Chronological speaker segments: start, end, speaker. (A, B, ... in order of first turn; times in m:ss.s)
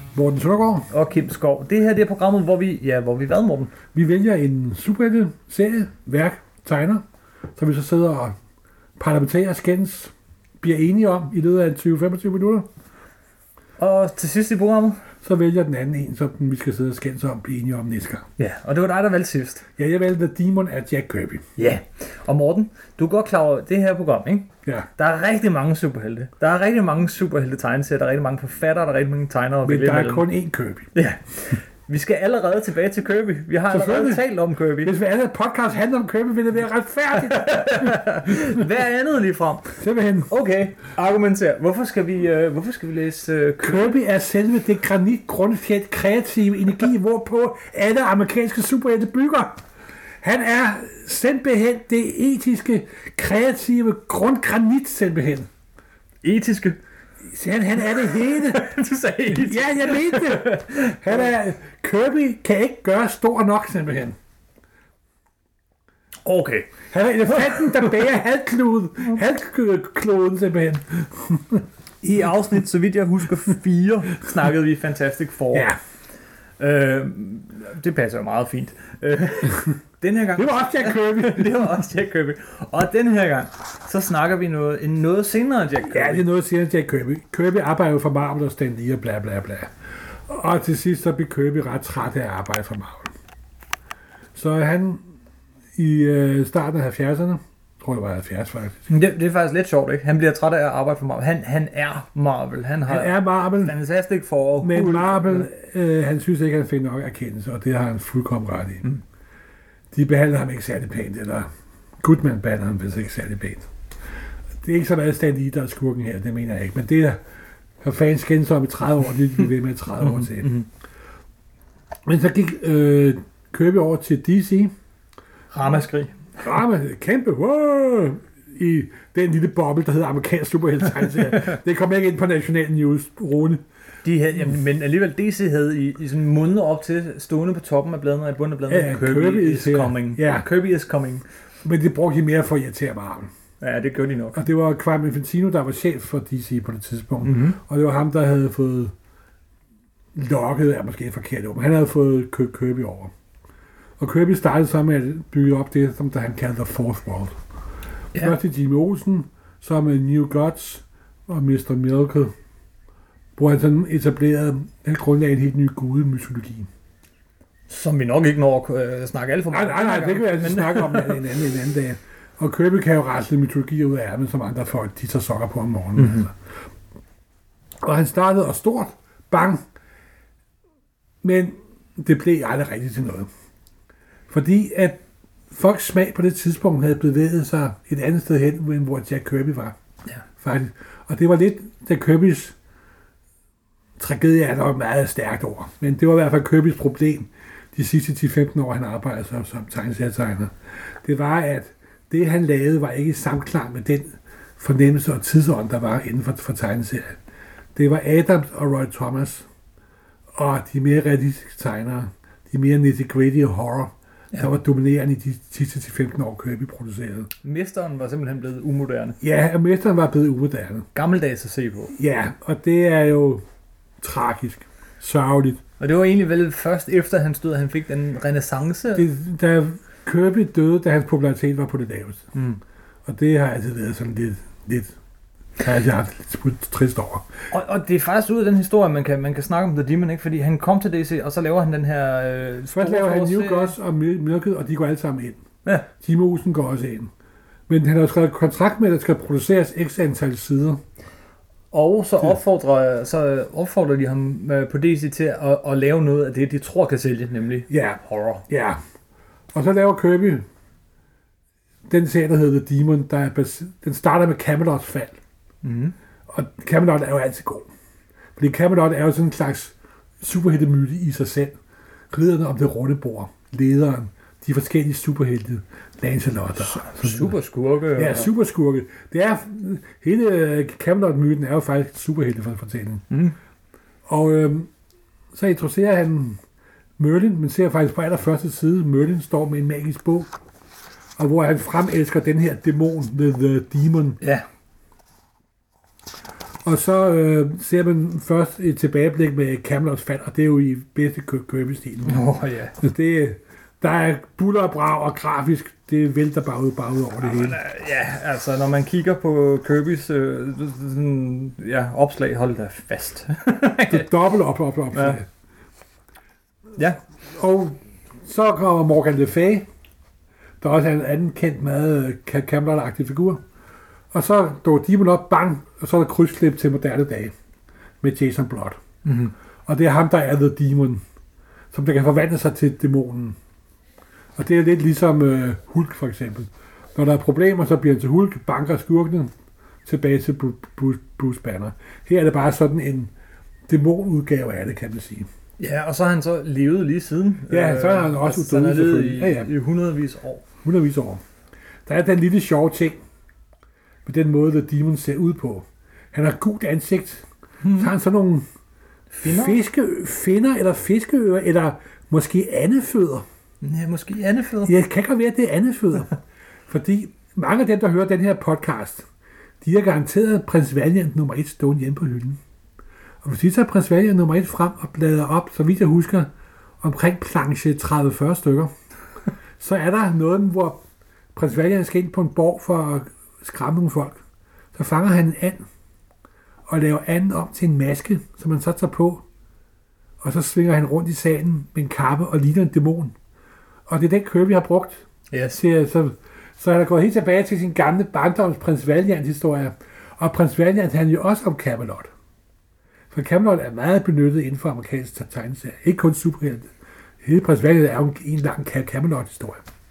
0:00.1-0:00.9 A
0:00.9-0:03.7 B
0:03.9-0:07.0 A
0:07.6-0:08.3 A
0:09.0-0:12.7 A
0:13.8-0:15.0 B
0:15.2-0:18.2 A
0:18.4-0:19.6 B
0:19.8-0:21.4 A
0:21.6-0:30.3 B
0:29.6-0:30.9 A
0:30.9-0:34.9 B
0:33.7-0:34.2 A
0:34.8-0:38.6 A
0:37.1-0:39.7 B
0:39.8-0:40.3 A
0:40.3-0:44.0 B
0:43.6-0:49.6 A
0:50.2-0:55.5 A
0:56.2-0:56.8 B
0:57.2-0:58.7 A
0:57.8-1:01.3 B
0:59.2-1:04.2 A
1:06.2-1:06.7 B
1:06.9-1:11.6 A
1:07.3-1:07.8 B
1:12.0-1:15.7 B
1:15.5-1:15.8 A
1:16.6-1:26.2 B
1:20.4-1:21.8 A
1:25.9-1:29.7 A
1:30.3-1:33.1 A
1:34.3-1:35.0 A
1:35.8-1:38.8 A
1:38.9-1:45.5 B
1:42.9-1:43.7 A
1:44.6-1:48.9 A
1:49.9-1:51.5 A
1:52.0-1:53.7 A
1:54.6-1:57.2 A
1:57.8-2:00.6 A
2:00.1-2:00.6 B
2:02.0-2:04.7 A
2:05.5-2:06.2 B
2:06.4-2:13.6 A
2:14.0-2:21.2 B
2:18.7-2:20.4 A
2:21.6-2:23.3 A
2:23.6-2:24.4 B
2:24.3-2:28.9 A
2:27.2-2:27.6 B
2:30.1-2:33.1 A
2:34.0-2:37.4 A
2:38.1-2:42.3 A
2:43.4-2:46.7 A
2:47.7-2:51.2 B
2:49.5-2:56.3 A
2:56.0-2:56.2 B
2:57.8-2:59.6 A
3:01.2-3:03.3 A
3:04.3-3:09.8 A
3:10.4-3:12.6 A
3:14.0-3:27.2 A
3:27.7-3:29.4 A
3:30.4-3:37.3 A
3:37.4-3:39.2 B
3:39.2-3:40.8 A
3:40.9-3:41.9 B
3:41.9-3:43.4 A
3:44.0-3:45.6 A
3:45.8-3:49.1 B
3:48.9-3:52.3 A
3:52.3-3:52.6 B
3:53.0-3:54.9 A
3:55.6-3:57.2 A
3:57.5-4:03.8 B
4:02.7-4:05.4 A
4:06.0-4:07.1 A
4:07.7-4:10.8 A
4:11.7-4:18.4 B
4:17.7-4:18.8 A
4:19.5-4:20.4 A
4:21.9-4:25.2 A
4:25.6-4:25.9 B
4:26.3-4:27.7 A
4:28.4-4:31.6 A
4:32.1-4:37.4 A
4:36.6-4:38.3 B
4:38.0-4:43.0 A
4:43.1-4:43.3 B
4:44.1-4:44.7 A
4:45.3-4:46.4 A
4:47.0-4:50.4 A
4:51.2-4:54.2 A
4:54.2-4:54.4 B
4:56.6-5:07.6 A
5:02.0-5:02.7 B
5:07.2-5:14.1 B
5:13.9-5:15.2 A
5:14.9-5:15.2 B
5:16.8-5:17.0 B
5:17.3-5:19.7 A
5:20.6-5:23.4 A
5:24.1-5:27.3 A
5:28.0-5:28.8 A
5:29.0-5:29.3 B
5:29.6-5:31.0 A
5:31.7-5:33.4 A
5:34.4-5:39.3 A
5:39.8-5:43.1 A
5:43.7-5:45.3 A
5:45.6-5:50.4 B
5:47.5-5:49.5 A
5:50.6-5:51.2 A
5:51.8-5:53.0 A
5:54.0-5:58.4 A
5:57.6-5:57.9 B
5:59.1-5:59.6 B
5:59.2-6:03.2 A
6:03.6-6:04.7 B
6:04.6-6:06.2 A
6:06.7-6:09.0 A
6:09.6-6:12.4 A
6:13.2-6:16.3 A
6:16.8-6:18.7 A
6:19.6-6:20.8 A
6:21.3-6:24.2 A
6:24.7-6:25.6 A
6:26.7-6:29.2 A
6:30.2-6:33.1 A
6:33.9-6:42.1 A
6:35.3-6:35.6 B
6:43.1-6:46.7 A
6:47.2-6:49.6 A